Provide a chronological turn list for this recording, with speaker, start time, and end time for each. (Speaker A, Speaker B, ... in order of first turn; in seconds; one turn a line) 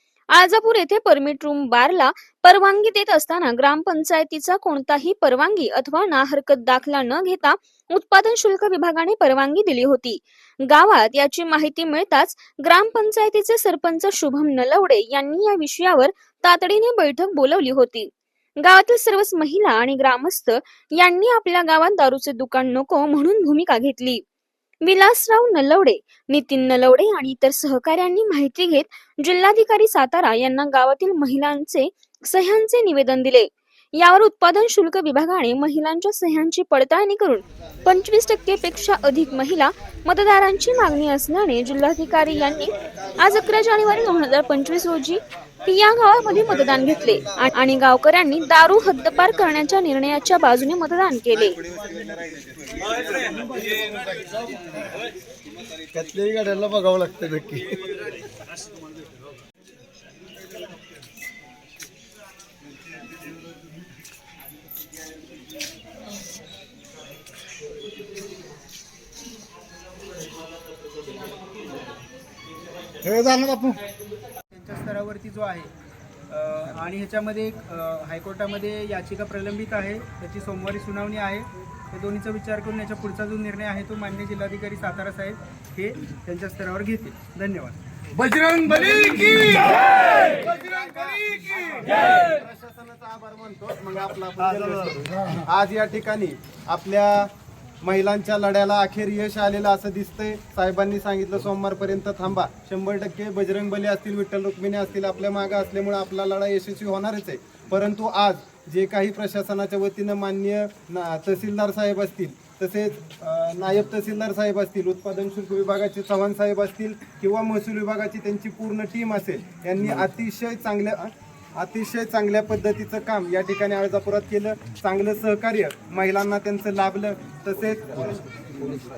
Speaker A: 0.3-24.2
Speaker A: 24.8-51.6
Speaker B: 51.8-52.0
Speaker C: 55.9-57.8
Speaker D: 74.5-75.7
Speaker D: 76.3-87.8
Speaker B: 88.5-89.4
Speaker B: 90.3-97.3
Speaker C: 94.4-95.0
Speaker B: 97.8-128.7